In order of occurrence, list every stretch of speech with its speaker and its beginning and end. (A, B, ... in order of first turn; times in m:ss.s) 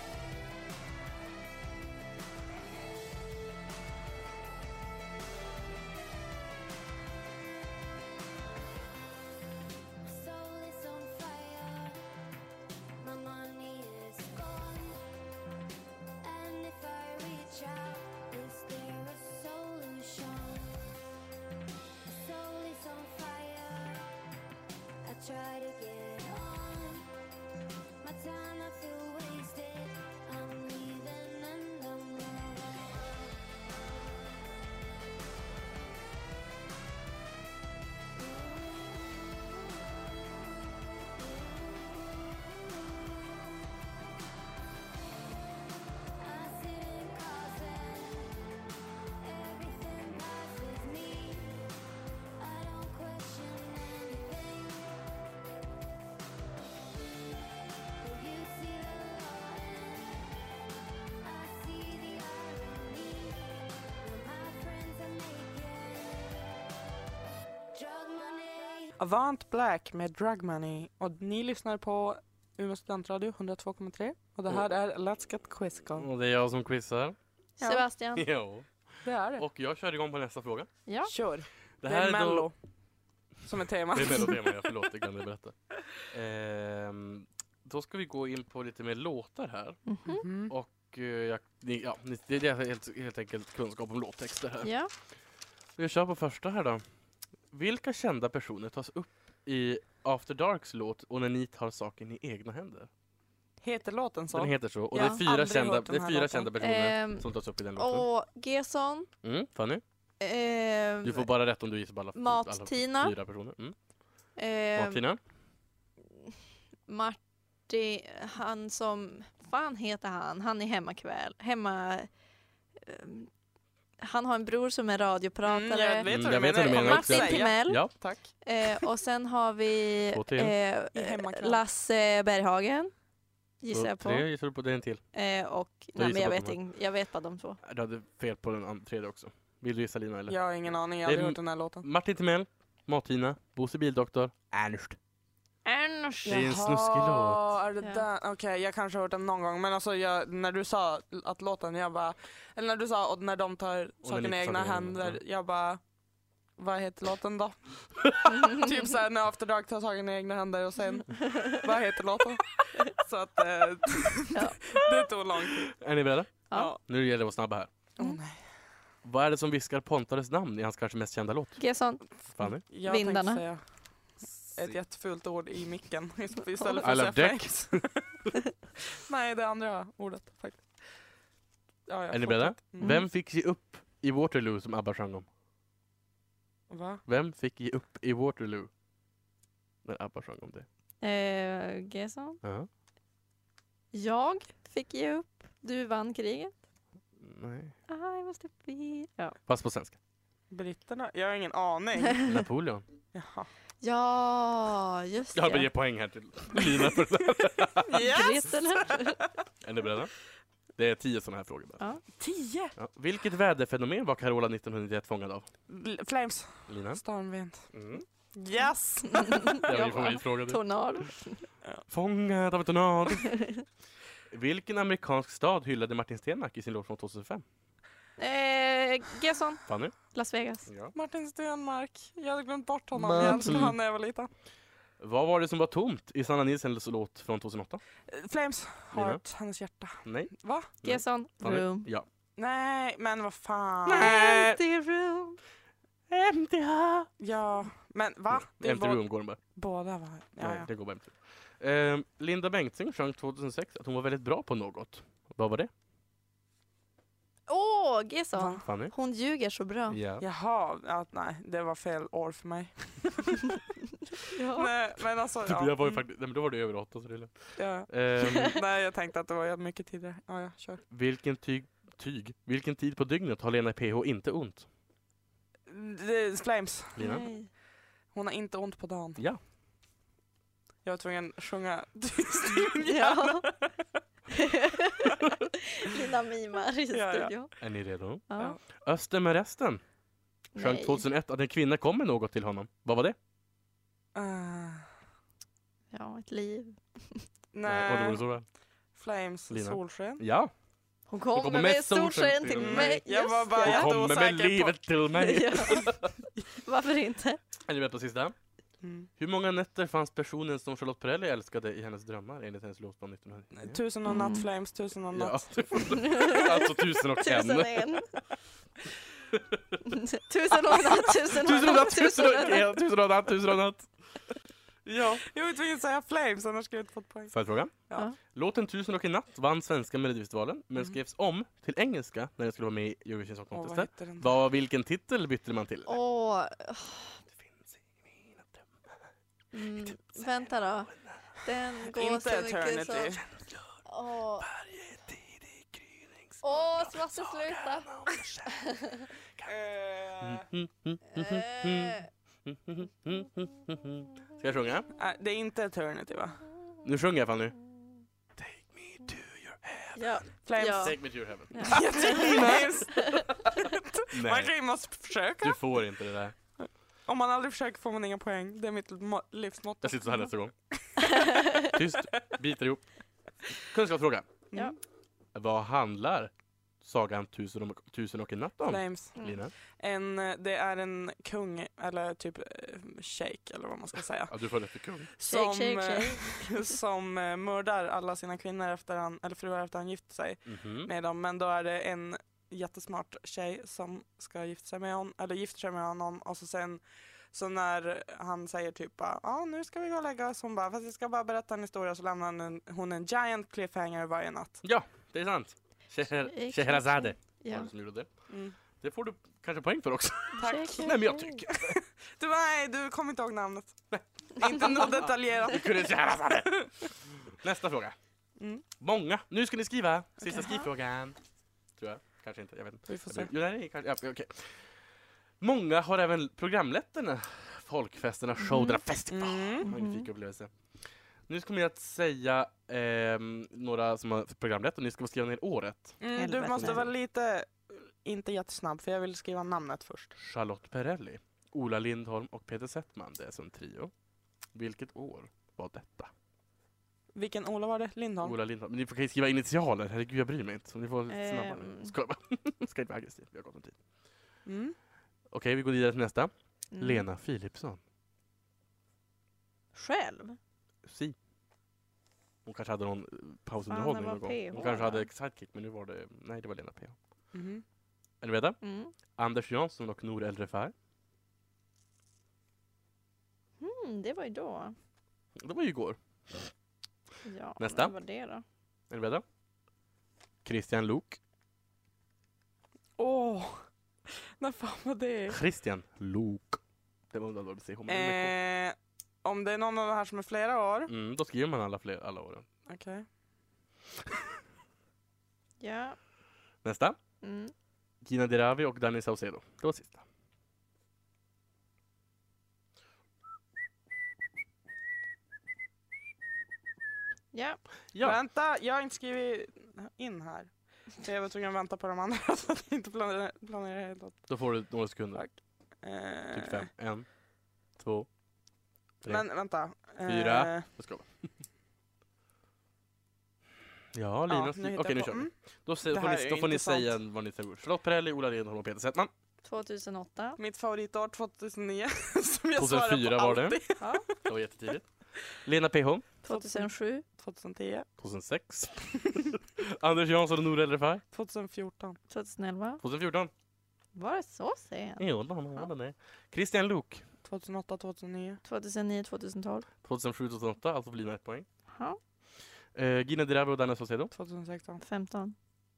0:10.0-0:12.0 A
0:13.0-0:15.1 A
0:16.2-0:20.8 A
0:22.1-0:24.1 A
0:25.0-0:27.1 A
0:28.0-0:34.3 A
0:38.2-0:43.4 A
0:46.2-0:48.4 A
0:49.2-0:51.7 A
0:52.4-0:55.1 A
0:58.0-1:00.4 A
1:01.2-1:06.7 A
1:07.7-1:09.0 A
1:09.0-1:16.1 B
1:15.9-1:17.2 C
1:17.6-1:18.2 D
1:18.1-1:18.7 C
1:19.0-1:19.4 B
1:19.3-1:20.7 C
1:20.9-1:21.1 D
1:21.1-1:22.5 B
1:21.8-1:22.5 C
1:23.4-1:24.5 B
1:23.9-1:25.5 C
1:26.1-1:29.8 C
1:29.9-1:30.2 D
1:30.1-1:30.5 B
1:30.5-1:34.7 C
1:34.6-1:34.9 D
1:35.8-1:36.8 C
1:37.5-1:42.9 C
1:43.6-1:46.5 B
1:44.3-1:48.0 C
1:44.9-1:45.2 D
1:46.6-1:49.1 D
1:49.2-1:49.8 C
1:50.2-1:51.3 D
1:51.0-1:53.8 C
1:52.1-1:53.1 D
1:54.4-1:55.0 D
1:54.7-1:55.2 C
1:56.9-2:02.1 D
2:02.8-2:03.3 D
2:04.0-2:12.9 D
2:05.4-2:08.3 B
2:06.0-2:07.9 C
2:10.1-2:10.5 C
2:10.9-2:11.6 B
2:13.6-2:14.2 D
2:13.7-2:15.0 C
2:15.1-2:17.6 D
2:16.0-2:16.6 C
2:17.6-2:20.4 C
2:20.3-2:21.8 B
2:21.0-2:25.0 C
2:25.6-2:26.5 D
2:26.2-2:27.5 C
2:26.2-2:35.8 B
2:34.0-2:35.2 C
2:36.6-2:45.7 B
2:38.3-2:38.6 D
2:41.1-2:41.5 D
2:44.3-2:44.6 D
2:45.7-2:47.7 C
2:46.5-2:46.8 B
2:48.0-2:48.4 B
2:49.0-2:51.6 C
2:51.6-2:52.0 D
2:52.3-2:52.6 C
2:52.4-2:53.6 B
2:52.6-2:53.4 D
2:54.2-2:58.2 B
2:56.8-2:57.8 C
2:58.9-3:00.8 B
3:01.9-3:03.0 B
3:02.1-3:05.2 C
3:02.8-3:03.0 D
3:06.7-3:07.0 B
3:07.1-3:08.7 C
3:09.8-3:10.6 C
3:11.0-3:12.4 D
3:12.4-3:12.7 C
3:13.9-3:16.5 D
3:17.2-3:17.7 C
3:17.9-3:19.4 D
3:19.5-3:20.0 C
3:20.5-3:22.3 B
3:22.2-3:22.8 C
3:23.1-3:23.5 B
3:23.8-3:25.7 D
3:25.3-3:28.0 C
3:27.8-3:29.0 B
3:27.9-3:29.2 D
3:29.6-3:30.1 C
3:30.8-3:31.8 C
3:32.2-3:32.7 B
3:32.8-3:35.4 C
3:35.7-3:37.7 B
3:36.7-3:37.0 C
3:37.7-3:38.0 C
3:38.3-3:40.1 B
3:39.1-3:41.5 D
3:39.6-3:41.1 C
3:41.9-3:43.3 C
3:43.2-3:43.6 D
3:44.3-3:47.4 C
3:48.2-3:50.7 D
3:49.6-3:49.9 C
3:50.6-3:50.9 C
3:50.9-3:54.3 B
3:52.9-3:53.8 C
3:53.2-3:53.6 D
3:55.0-3:57.8 C
3:58.1-4:00.7 B
3:58.9-3:59.2 C
4:00.0-4:02.0 C
4:00.8-4:01.9 D
4:02.4-4:04.2 B
4:03.8-4:04.6 C
4:03.9-4:05.4 D
4:06.1-4:07.1 C
4:07.2-4:10.7 B
4:08.3-4:09.4 C
4:10.4-4:15.7 C
4:17.5-4:20.0 D
4:18.4-4:18.6 B
4:18.6-4:18.9 C
4:19.9-4:20.2 C
4:20.2-4:23.6 B
4:24.2-4:24.7 D
4:24.5-4:26.0 B
4:25.4-4:28.5 C
4:27.6-4:30.8 B
4:30.9-4:34.6 C
4:35.7-4:37.1 B
4:37.0-4:37.3 C
4:37.0-4:37.5 D
4:38.1-4:39.2 B
4:40.8-4:43.7 B
4:42.8-4:43.5 D
4:44.3-4:47.5 D
4:46.9-4:47.3 B
4:47.6-4:48.2 C
4:48.3-4:48.6 D
4:48.8-4:49.8 C
4:50.6-4:51.0 D
4:50.6-4:53.2 C
4:54.1-4:54.8 B
4:55.9-4:57.2 D
4:57.5-4:58.2 B
4:57.6-4:58.4 C
4:58.9-5:00.2 B
4:59.5-5:00.5 C
5:01.1-5:03.9 D
5:01.3-5:03.0 C
5:02.5-5:04.8 B
5:03.6-5:06.1 C
5:05.1-5:07.4 D
5:07.6-5:08.3 C
5:08.8-5:09.1 B
5:09.2-5:13.8 C
5:13.5-5:16.0 B
5:14.1-5:14.5 D
5:15.1-5:18.0 C
5:15.9-5:18.1 D
5:19.3-5:19.8 C
5:19.9-5:22.8 D
5:21.3-5:23.9 C
5:24.8-5:25.2 C
5:25.2-5:27.3 B
5:27.3-5:27.7 C
5:28.3-5:36.0 C
5:33.5-5:34.3 B
5:35.9-5:37.2 D
5:37.4-5:38.6 C
5:39.5-5:43.2 D
5:39.8-5:41.2 C
5:41.8-5:43.2 B
5:43.3-5:43.7 C
5:43.8-5:44.5 D
5:44.4-5:48.8 C
5:46.4-5:49.1 D
5:49.4-5:50.4 B
5:50.2-5:54.9 C
5:51.1-5:52.1 D
5:55.0-5:56.4 B
5:56.8-5:57.6 C
5:58.4-6:00.0 C
5:59.9-6:01.0 D
6:00.4-6:01.0 B
6:00.7-6:03.5 C
6:01.5-6:03.2 D
6:01.6-6:05.6 B
6:04.1-6:04.5 C
6:05.4-6:06.3 C
6:06.6-6:10.1 B
6:09.8-6:10.5 C
6:11.3-6:11.6 D
6:11.7-6:12.8 C
6:13.7-6:14.3 C
6:15.3-6:19.5 C
6:18.6-6:24.4 B
6:19.2-6:19.4 D
6:24.3-6:25.1 C
6:25.1-6:44.6 B
6:25.2-6:26.7 D
6:30.5-6:30.9 C
6:44.6-6:48.1 C
6:46.2-6:47.7 D
6:48.3-6:48.6 B
6:48.8-6:51.8 C
6:50.4-6:51.4 D
6:50.4-6:50.9 B
6:51.6-6:53.8 B
6:53.9-6:57.9 C
6:54.4-6:55.9 B
6:58.4-6:58.6 B
6:58.8-7:01.2 C
7:00.3-7:00.6 D
7:01.8-7:04.8 C
7:02.9-7:03.3 B
7:05.4-7:10.5 C
7:08.4-7:08.8 D
7:09.1-7:09.7 B
7:09.6-7:10.1 D
7:11.3-7:16.0 C
7:16.0-7:20.1 B
7:16.1-7:16.9 D
7:16.5-7:16.9 C
7:20.2-7:23.9 C
7:24.5-7:26.1 C
7:27.1-7:28.4 B
7:28.2-7:33.8 C
7:31.1-7:31.9 D
7:34.4-7:34.8 B
7:35.3-7:37.8 C
7:36.7-7:37.1 D
7:39.7-7:40.4 D
7:40.8-7:41.2 C
7:42.4-7:47.0 C
7:43.7-7:45.1 D
7:47.3-7:47.6 B
7:48.2-7:48.6 C
7:48.6-7:48.9 D
7:49.1-7:50.7 C
7:53.6-7:54.8 D
7:55.4-7:56.5 C
7:57.2-7:58.4 D
7:57.6-7:57.9 C
7:58.9-7:59.2 C
8:00.4-8:01.2 C
8:03.0-8:05.4 B
8:05.3-8:06.6 C
8:07.1-8:08.3 C
8:07.9-8:10.9 B
8:10.9-8:12.4 C
8:12.6-8:13.1 B
8:15.6-8:16.0 D
8:16.6-8:17.0 C
8:17.2-8:17.5 D
8:18.0-8:20.0 C
8:27.3-8:27.6 D
8:27.9-8:28.2 C
8:28.0-8:34.3 B
8:34.3-8:35.2 C
8:35.1-8:36.6 B
8:36.3-8:37.1 C
8:37.8-8:38.1 C
8:39.0-8:39.3 C
8:39.0-8:40.7 B
8:40.0-8:41.2 C
8:43.9-8:49.1 C
8:44.3-8:45.3 B
8:45.9-8:46.9 B
8:49.4-8:50.4 D
8:50.4-8:54.3 B
8:52.6-8:53.6 C
8:53.8-8:54.0 D
8:54.2-8:56.0 C
8:56.2-8:57.0 D
8:56.3-8:57.9 B
8:58.0-9:01.0 C
9:01.1-9:02.0 B
9:02.1-9:02.8 D
9:02.8-9:03.3 C
9:03.9-9:05.7 D
9:05.0-9:07.0 C
9:07.2-9:08.4 B
9:08.4-9:09.6 D
9:09.8-9:11.4 C
9:11.7-9:12.0 D
9:12.7-9:14.1 C
9:14.1-9:14.8 B
9:14.8-9:15.3 D